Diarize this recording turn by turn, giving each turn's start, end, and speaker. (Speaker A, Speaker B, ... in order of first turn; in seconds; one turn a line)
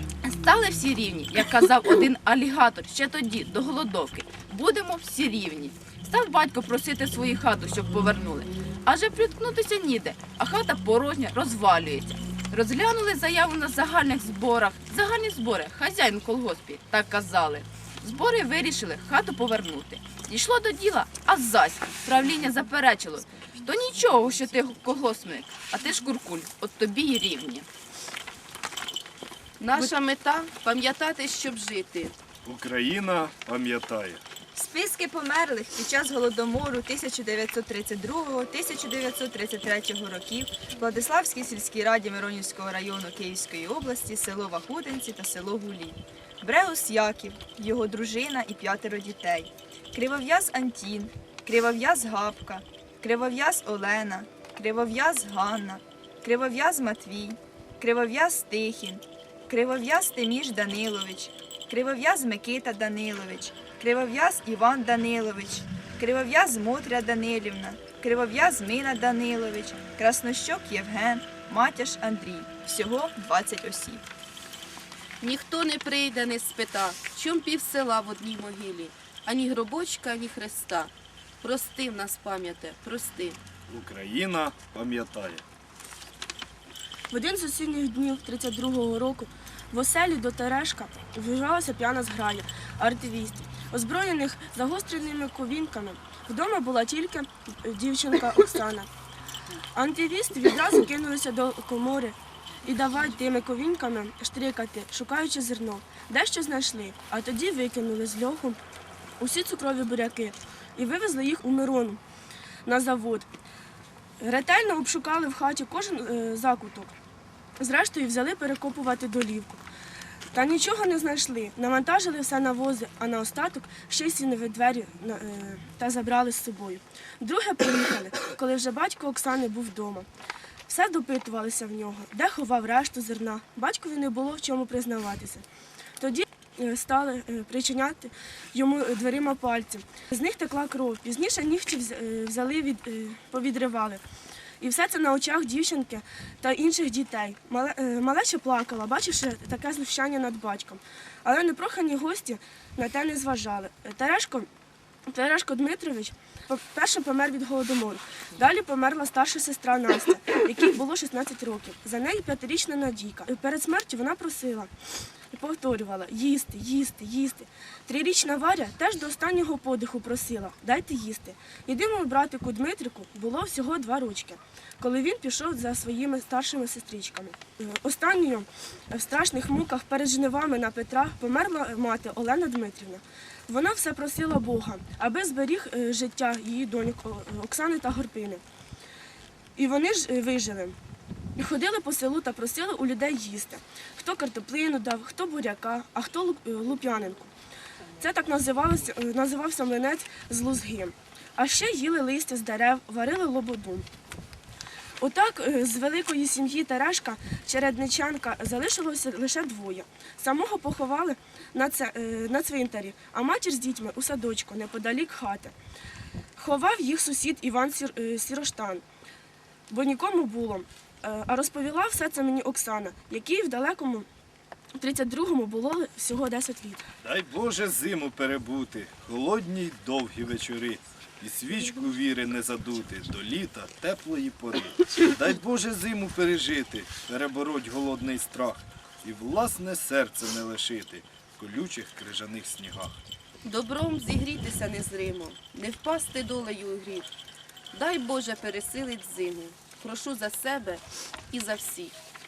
Speaker A: 0.3-21.9
Speaker B: 22.0-22.9
Speaker A: 22.9-23.2
Speaker B: 23.8-24.3
Speaker A: 24.3-25.6
Speaker B: 25.6-26.3
Speaker A: 26.4-27.7
Speaker B: 29.6-32.2
Speaker C: 32.5-34.2
Speaker D: 34.5-74.0
Speaker B: 75.2-83.4
Speaker C: 83.7-85.4
Speaker E: 87.1-98.9
Speaker E: 99.8-108.6
Speaker E: 109.2-112.0
Speaker E: 112.7-113.3
Speaker E: 114.2-116.9
Speaker E: 117.6-119.5
Speaker E: 120.3-130.1
Speaker E: 130.7-135.4
Speaker E: 136.0-144.0
Speaker E: 144.6-154.5
Speaker E: 155.1-164.7
Speaker E: 165.3-188.4
Speaker E: 189.6-190.8
Speaker E: 191.4-197.3
Speaker E: 198.0-203.9
Speaker E: 205.0-215.6
Speaker E: 216.4-218.8
Speaker E: 219.7-224.1
Speaker E: 224.8-226.8
Speaker C: 227.0-243.0
Speaker B: 243.4-247.1
Speaker B: 247.7-252.0